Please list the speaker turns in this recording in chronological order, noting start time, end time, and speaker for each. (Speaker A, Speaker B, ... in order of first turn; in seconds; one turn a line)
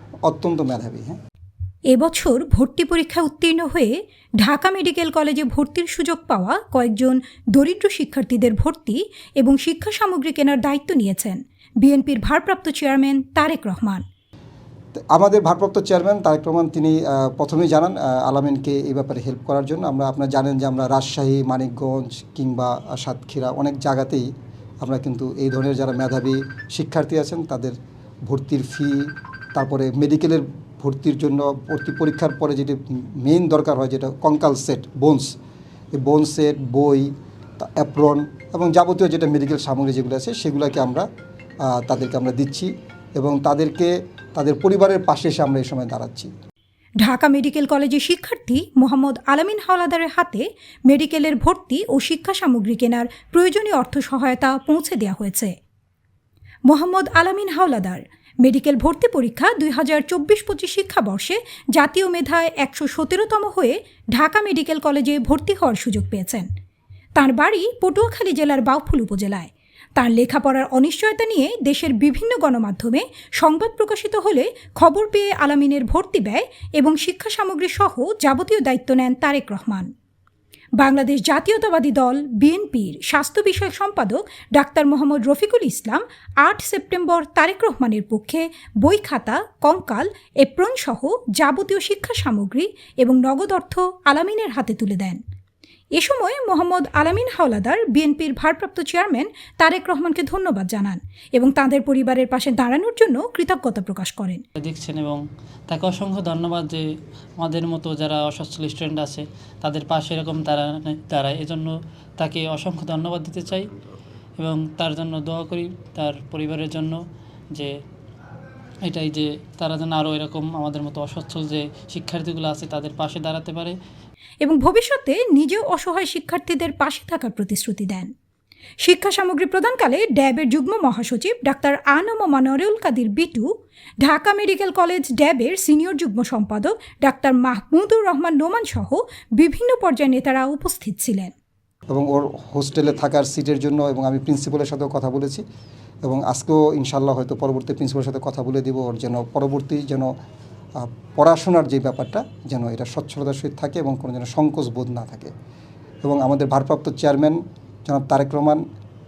Speaker A: 0.2-1.2
Speaker B: 1.9-14.0
Speaker A: 14.9-24.3
Speaker A: 24.8-27.8
Speaker A: 28.3-35.3
Speaker A: 35.9-41.0
Speaker A: 41.6-46.3
Speaker B: 47.0-55.5
Speaker B: 56.7-66.5
Speaker B: 67.2-79.9
Speaker B: 80.8-95.2
Speaker B: 96.0-104.4
Speaker C: 104.6-106.8
Speaker C: 107.4-113.7
Speaker C: 114.4-117.0
Speaker C: 118.9-123.8
Speaker B: 124.4-128.1
Speaker B: 128.8-133.5
Speaker B: 134.0-141.3
Speaker A: 141.9-145.4
Speaker A: 146.0-150.1
Speaker A: 150.8-155.3
Speaker A: 156.0-158.6